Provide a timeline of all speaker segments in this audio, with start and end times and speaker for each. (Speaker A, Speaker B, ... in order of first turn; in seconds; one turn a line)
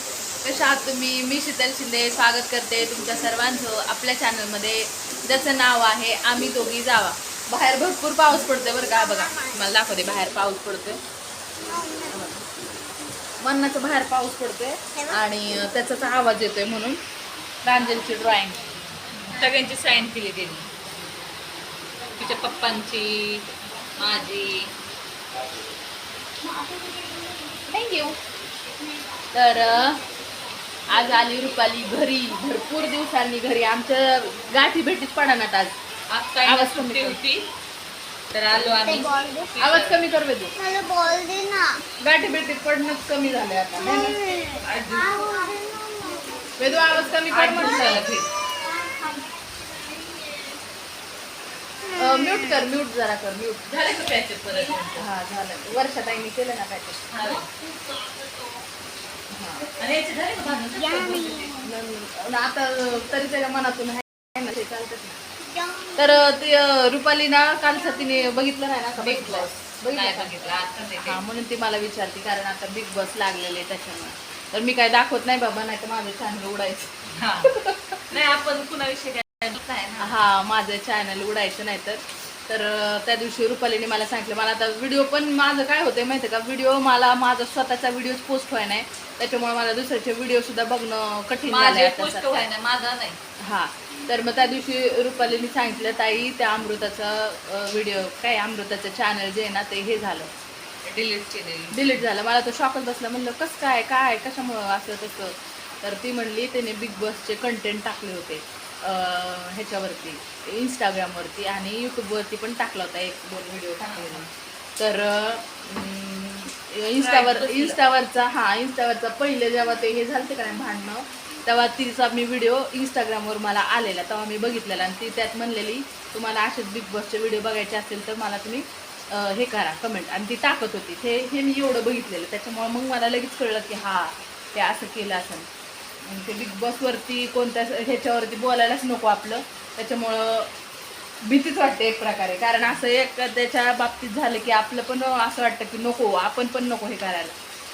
Speaker A: 0.4-11.0
Speaker B: 8.9-9.7
Speaker B: 11.6-12.3
Speaker A: 12.1-12.4
Speaker A: 13.4-17.0
Speaker B: 14.9-15.2
Speaker A: 17.6-18.7
Speaker C: 19.2-20.7
Speaker C: 22.2-24.7
Speaker B: 26.5-27.6
Speaker A: 27.7-28.2
Speaker A: 29.3-30.0
Speaker A: 30.9-35.8
Speaker C: 36.1-37.5
Speaker A: 36.4-37.2
Speaker C: 38.3-40.0
Speaker B: 38.8-39.5
Speaker A: 39.6-40.6
Speaker B: 40.5-41.8
Speaker A: 42.0-44.3
Speaker B: 43.8-47.2
Speaker C: 44.5-45.5
Speaker A: 46.6-48.0
Speaker C: 47.3-48.3
Speaker B: 48.5-50.6
Speaker B: 51.8-52.5
Speaker A: 51.9-54.1
Speaker C: 53.8-55.0
Speaker A: 54.9-57.4
Speaker C: 57.1-57.5
Speaker B: 57.5-58.5
Speaker A: 59.3-59.7
Speaker C: 59.7-61.6
Speaker B: 60.8-61.6
Speaker A: 61.5-65.2
Speaker B: 65.4-66.4
Speaker A: 66.0-78.1
Speaker C: 69.0-71.2
Speaker C: 77.2-77.5
Speaker C: 78.1-80.2
Speaker A: 80.0-92.5
Speaker C: 91.5-93.2
Speaker A: 93.4-100.3
Speaker C: 100.8-102.0
Speaker A: 101.7-135.4
Speaker C: 113.8-114.2
Speaker C: 117.0-117.8
Speaker A: 136.0-140.5
Speaker A: 141.2-147.3